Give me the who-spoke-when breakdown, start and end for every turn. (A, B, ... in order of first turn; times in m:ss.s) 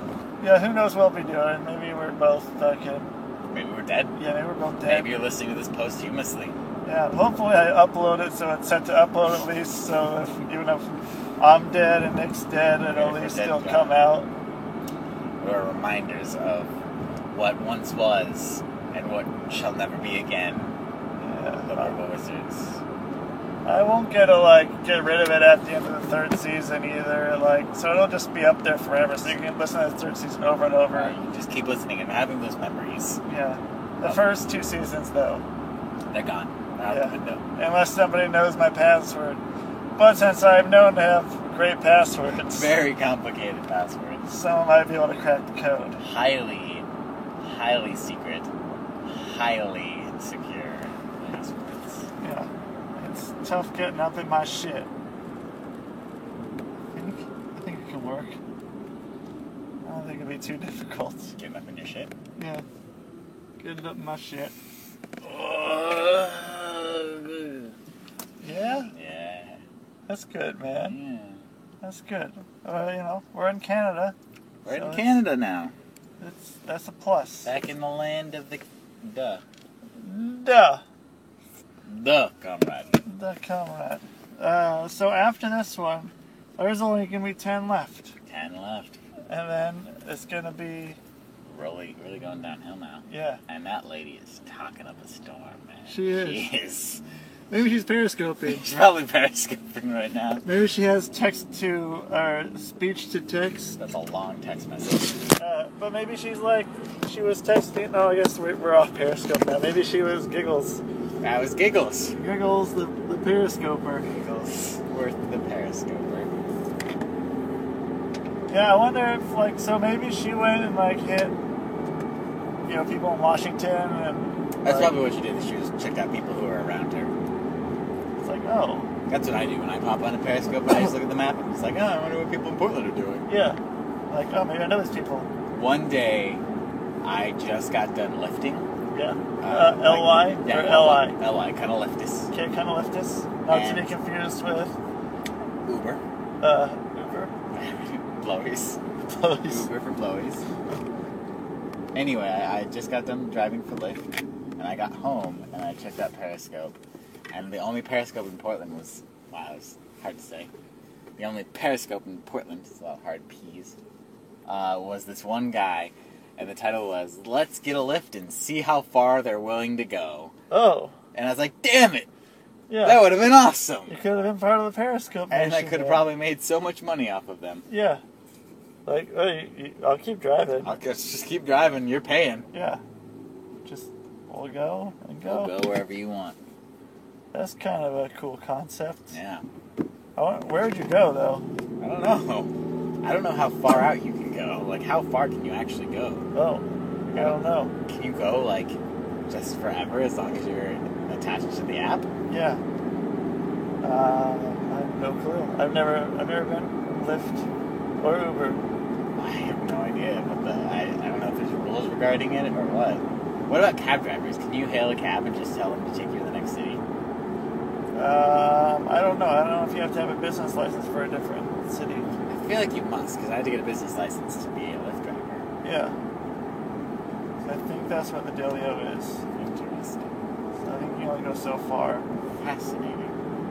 0:00.4-0:03.1 A
0:03.4-0:04.2 B
0:04.2-0:05.1 A
0:04.8-0:06.5 B
0:06.8-0:14.3 A
0:12.8-0:14.0 B
0:15.4-0:16.7 B
0:17.3-0:20.7 B
0:21.2-0:22.0 A
0:21.6-0:22.8 B
0:23.6-0:31.2 A
0:30.9-0:33.2 B
0:33.2-0:35.4 A
0:36.1-0:37.4 B
0:36.9-0:39.4 A
0:40.0-0:42.7 A
0:42.5-0:44.2 B
0:44.2-0:46.0 A
0:46.0-0:46.9 B
0:47.4-0:48.5 B
0:49.0-0:52.1 B
0:52.2-0:54.9 A
0:56.9-0:58.4 A
0:59.8-1:01.3 A
1:01.3-1:02.1 B
1:02.4-1:02.6 A
1:03.6-1:04.5 A
1:05.2-1:07.7 B
1:08.4-1:08.9 A
1:08.4-1:09.6 B
1:10.1-1:11.0 A
1:10.7-1:11.4 B
1:11.8-1:14.1 A
1:14.6-1:15.7 B
1:14.7-1:15.1 A
1:16.2-1:17.5 A
1:17.4-1:19.4 B
1:20.0-1:20.8 A
1:21.9-1:23.0 B
1:23.0-1:28.1 A
1:28.3-1:29.0 B
1:29.3-1:31.0 A
1:31.5-1:37.0 B
1:33.1-1:33.4 A
1:35.9-1:36.4 A
1:37.5-1:38.6 A
1:38.4-1:40.4 B
1:40.4-1:43.8 A
1:43.8-1:45.1 B
1:45.3-1:50.8 A
1:51.2-1:52.2 B
1:52.2-1:54.1 A
1:54.1-1:56.3 B
1:58.5-2:01.4 A
2:02.6-2:04.9 A
2:04.6-2:07.1 B
2:08.2-2:08.9 A
2:09.1-2:13.2 B
2:13.2-2:15.3 A
2:15.5-2:16.4 B
2:17.0-2:18.7 B
2:18.9-2:21.2 A
2:19.4-2:22.3 B
2:22.3-2:24.8 A
2:23.5-2:23.9 B
2:25.7-2:26.0 B
2:26.4-2:27.3 A
2:27.5-2:28.8 B
2:29.1-2:29.7 A
2:29.5-2:30.4 B
2:31.9-2:34.0 B
2:34.6-2:36.8 B
2:37.3-2:40.5 B
2:41.2-2:43.8 B
2:44.5-2:50.3 B
2:50.5-2:50.9 A
2:51.1-2:52.1 B
2:52.7-2:53.0 A
2:52.8-2:54.0 B
2:53.9-2:56.0 A
2:55.3-2:57.6 B
2:57.7-2:58.0 A
2:58.8-3:00.7 A
3:00.6-3:02.5 B
3:02.5-3:02.8 A
3:03.6-3:05.5 A
3:05.2-3:06.4 B
3:07.3-3:09.2 A
3:09.1-3:09.4 B
3:10.2-3:11.5 A
3:11.8-3:12.5 B
3:13.0-3:16.3 B
3:16.3-3:17.7 A
3:17.1-3:22.1 B
3:22.3-3:22.6 A
3:23.8-3:27.4 A
3:28.0-3:28.6 A
3:29.1-3:36.8 B
3:37.9-3:42.1 A
3:42.3-3:45.5 B
3:45.6-3:45.9 A
3:47.4-3:49.3 A
3:49.3-3:50.1 B
3:50.6-3:52.0 A
3:52.4-3:53.1 B